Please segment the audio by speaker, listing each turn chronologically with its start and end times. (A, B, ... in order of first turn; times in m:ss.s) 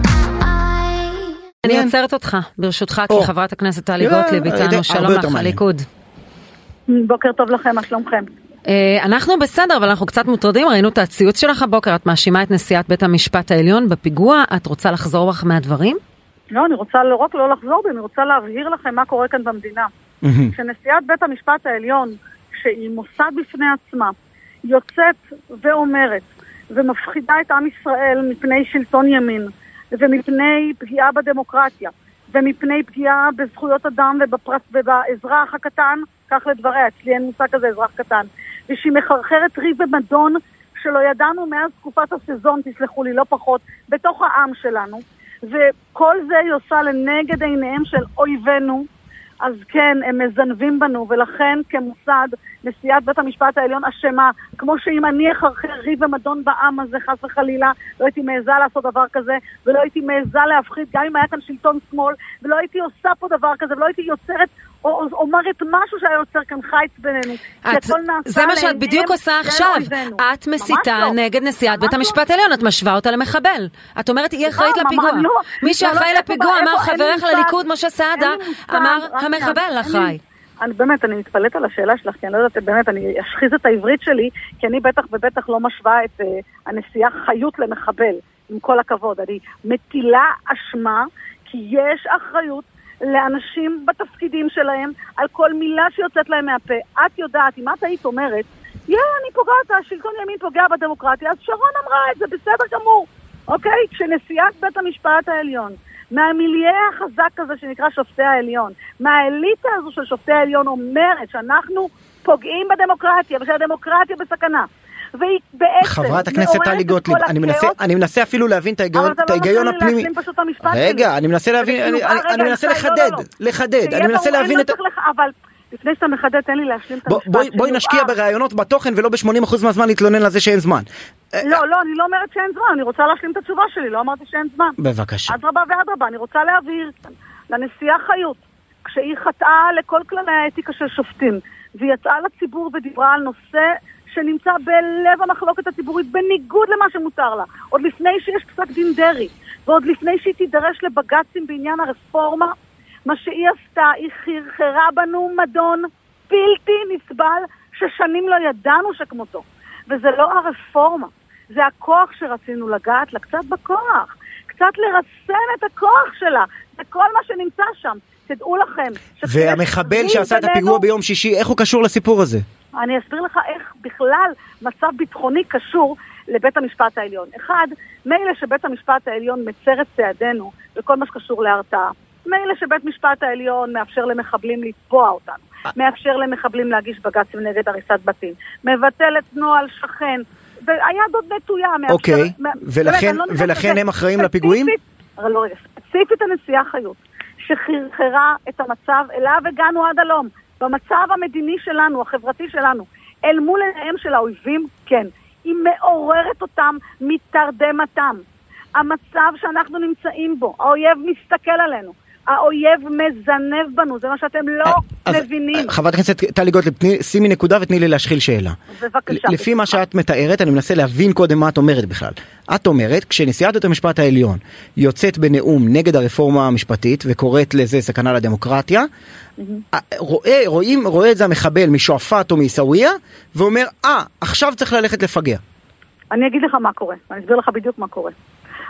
0:01.6-0:05.8 A
0:01.6-0:01.9 B
0:04.0-0:05.6 B
0:06.9-0:08.3 C
0:08.7-0:16.0 A
0:16.5-0:19.9 C
0:20.2-0:20.5 B
0:20.5-0:24.1 C
0:24.6-0:48.8 C
0:49.4-1:12.2 C
1:07.6-1:20.2 A
1:14.4-1:17.6 C
1:18.2-1:57.7 C
1:55.8-2:00.1 B
1:58.9-2:01.1 C
2:00.6-2:04.7 B
2:01.6-2:03.2 C
2:03.8-2:08.1 C
2:07.0-2:11.6 B
2:11.4-2:14.8 C
2:14.8-2:15.4 B
2:15.3-2:32.5 C
2:33.0-2:50.8 C
2:49.2-2:52.4 B
2:52.8-3:28.2 C
3:11.9-3:14.7 B
3:28.8-3:35.8 C
3:34.6-3:38.6 B
3:38.7-3:39.8 C
3:39.1-3:48.9 B
3:49.7-3:55.4 B
3:56.1-3:58.1 C